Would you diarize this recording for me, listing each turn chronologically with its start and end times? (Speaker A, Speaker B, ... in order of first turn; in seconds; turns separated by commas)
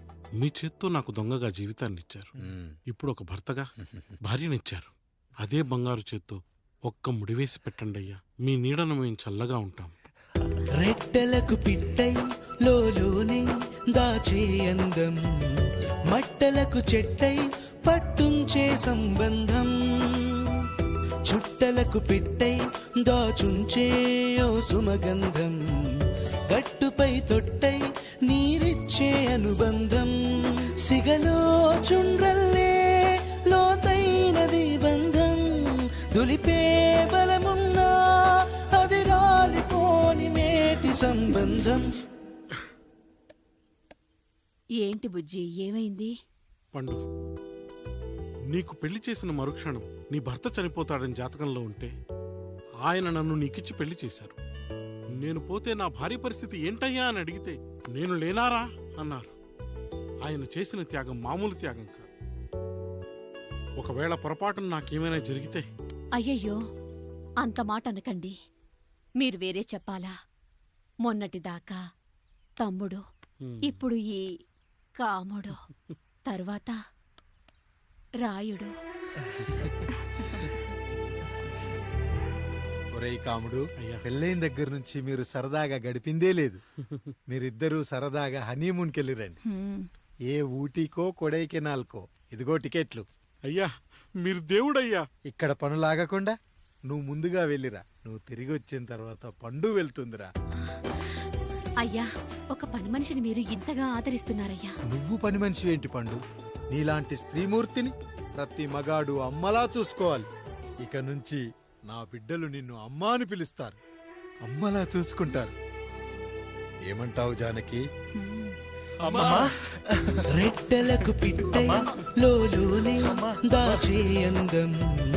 Speaker A: 0.4-2.3, Speaker B: 2.4-2.8, Speaker A: 2.9-3.7, Speaker B: 3.8-4.1, Speaker A: 4.2-9.9, Speaker C: 10.8-15.2, Speaker C: 16.1-20.6, Speaker C: 21.3-25.6, Speaker C: 26.5-41.9, Speaker D: 44.8-46.1, Speaker A: 46.8-47.0, Speaker A: 48.5-51.9, Speaker A: 52.9-54.4, Speaker A: 55.2-59.3, Speaker A: 60.2-62.1, Speaker A: 63.8-65.7, Speaker D: 66.2-66.6, Speaker D: 67.4-68.3, Speaker D: 69.2-70.1, Speaker D: 71.1-71.8, Speaker D: 72.6-73.0, Speaker A: 73.4-73.8, Speaker D: 73.6-74.2, Speaker D: 75.0-75.6, Speaker D: 76.3-76.8, Speaker D: 78.2-78.7, Speaker B: 82.9-86.6, Speaker B: 87.3-89.4, Speaker B: 90.3-93.1, Speaker A: 94.2-95.0, Speaker B: 95.3-96.3, Speaker B: 96.9-100.3, Speaker D: 101.8-104.7, Speaker B: 104.9-106.2, Speaker B: 106.7-110.3, Speaker B: 110.8-113.8, Speaker B: 114.5-115.5, Speaker B: 116.9-117.8, Speaker C: 120.3-124.7